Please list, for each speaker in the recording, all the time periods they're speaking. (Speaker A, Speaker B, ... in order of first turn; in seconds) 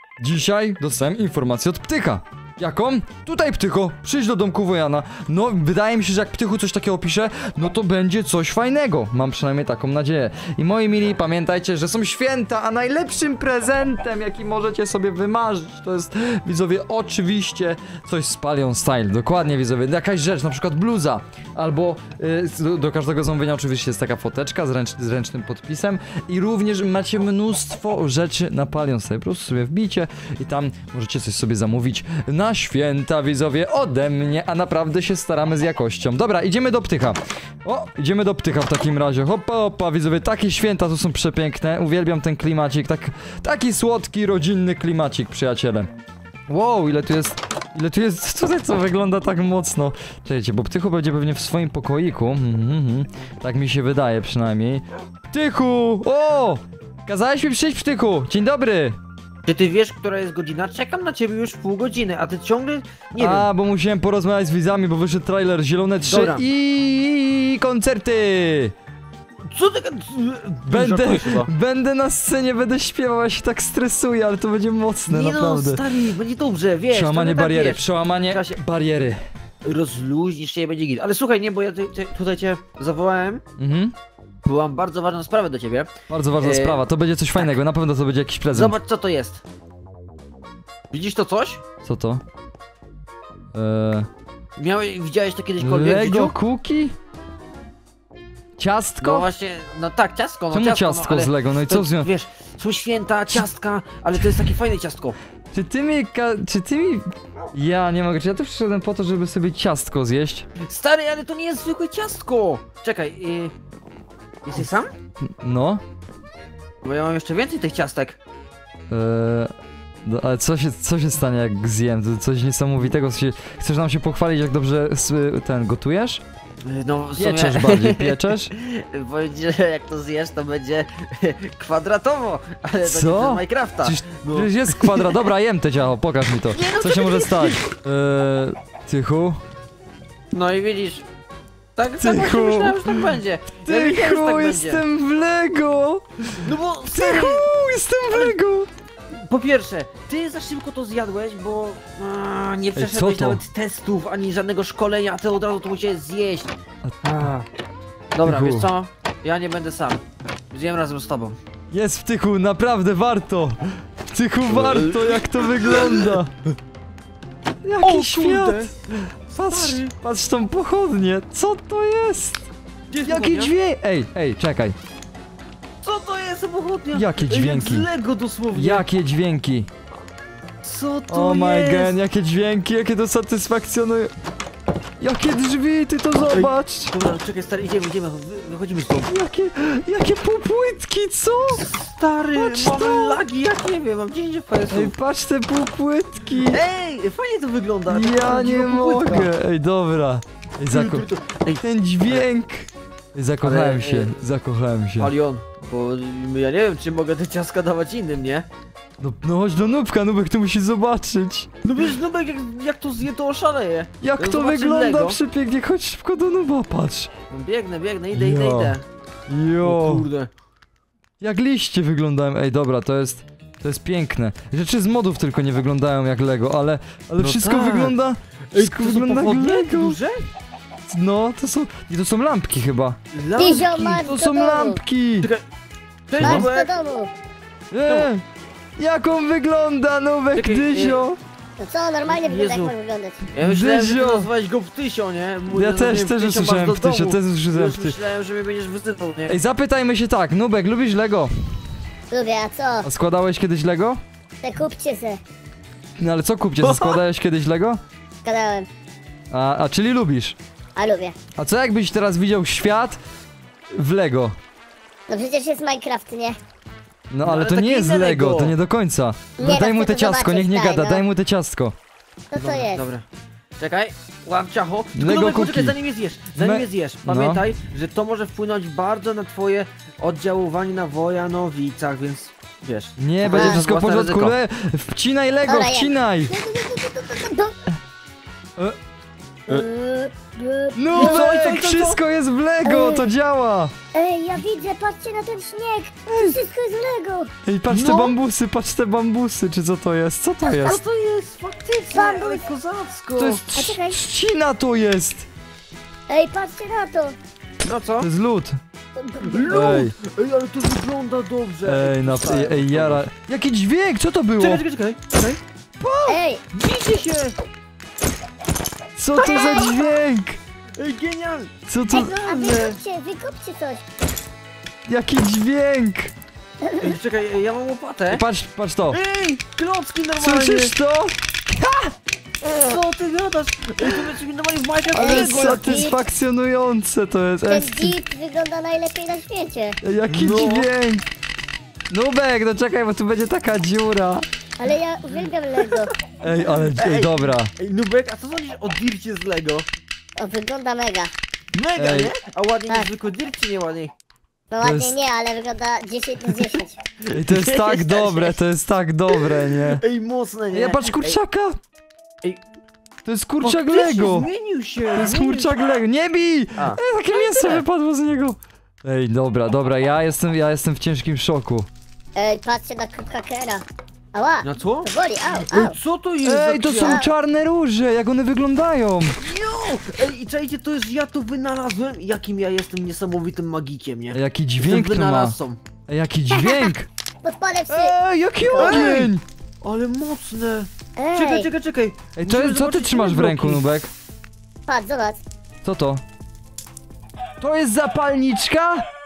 Speaker A: 0.2-45.9, 46.5-59.0, 63.2-68.8, 70.7-75.9, 76.9-79.2, 83.6-83.9, 86.1-88.8, 91.8-92.2, 93.5-94.1, 95.6-96.9, 98.6-99.3, 100.5-102.1, 105.5-110.5, 115.4-115.8, 118.9-119.5, 120.0-126.2, 127.2-128.5, 132.8-139.4, 142.0-148.7, 152.8-153.4, 158.2-158.7, 161.7-166.3, 167.6-172.4, 173.0-174.8, 176.9-177.9, 178.5-179.7, 181.1-184.1, 185.0-186.9, 189.1-191.6, 192.3-193.2, 194.7-196.6, 197.9-201.1, 201.6-205.1, 209.0-211.5, 214.0-217.1, 218.1-218.8, 219.3-220.1, 221.2-230.0, 230.9-233.0, 234.0-235.3, 236.2-236.5, 237.7-238.2, 238.8-241.2, 243.4-244.3, 245.5-248.0, 249.3-251.3, 252.8-254.0, 256.0-257.8, 259.3-260.4, 261.4-263.0, 263.7-264.4, 267.1-271.8, 274.9-275.8, 276.4-277.4, 283.0-286.3, 290.8-293.7, 296.1-296.4, 297.4-300.8, 303.1-305.3, 308.0-308.6, 309.5-309.9, 311.6-314.6, 315.8-316.1, 319.0-320.4, 321.7-322.1, 324.9-326.1, 328.1-329.0, 330.1-331.9, 335.0-338.0, 339.8-341.1, 341.9-344.2, 346.2-347.5, 351.8-352.1, 354.6-354.9, 357.1-359.8, 360.5-361.6, 363.0-364.3, 364.9-371.7, 376.2-379.2, 384.1-385.4, 385.9-386.9, 387.7-389.2, 392.1-393.9, 395.6-396.0, 397.4-398.9
Speaker B: 59.5-63.5, 66.0-66.5, 69.5-71.5, 75.1-78.6, 79.6-83.4, 84.4-86.8, 88.5-89.4, 90.9-91.6, 94.6-96.3, 99.0-105.2, 110.6-113.5, 114.4-114.9, 116.8-118.2, 126.7-135.1, 136.6-137.7, 140.3-141.1, 141.8-144.8, 146.4-147.5, 148.1-148.3, 149.2-157.5, 158.2-161.4, 164.5-166.2, 167.8-168.8, 169.5-169.9, 172.9-173.5, 175.8-178.9, 180.6-182.0, 186.3-189.1, 191.6-194.9, 196.5-199.3, 200.7-202.2, 203.4-204.2, 205.0-208.5, 211.6-215.2, 217.3-218.8, 219.6-220.3, 227.2-227.9, 228.5-230.2, 233.1-234.1, 236.1-236.7, 237.8-238.1, 240.3-241.0, 242.1-242.7, 243.3-249.4, 256.6-257.0, 267.2-268.6, 272.3-273.1, 273.6-284.4, 290.9-292.0, 297.7-298.1, 300.5-303.5, 307.6-308.1, 309.2-313.1, 314.4-315.4, 316.5-317.4, 319.2-320.0, 320.8-322.8, 326.8-328.2, 328.9-330.7, 332.5-336.0, 340.1-340.7, 346.5-349.6, 351.5-353.9, 357.0-358.4, 359.1-361.2, 363.4-365.5, 366.6-367.6, 374.4-374.9, 375.4-377.0, 379.2-385.6, 388.6-393.6
Speaker C: 233.4-234.8, 236.2-237.1, 241.6-243.2, 252.1-252.9, 254.4-255.2, 258.2-258.7, 260.8-261.1, 265.1-266.4, 269.4-271.0, 272.3-272.9, 283.3-283.6, 285.5-287.6, 289.5-291.2, 292.6-293.1, 293.9-297.3, 301.9-302.5, 303.5-304.0, 306.1-307.1, 309.0-309.6, 316.1-316.4, 321.9-323.8, 334.9-336.0, 337.5-339.8, 344.6-345.9, 350.2-351.1, 354.5-356.8, 372.1-375.8, 376.8-377.1, 386.3-386.7, 387.2-388.9, 391.0-391.5, 394.6-395.2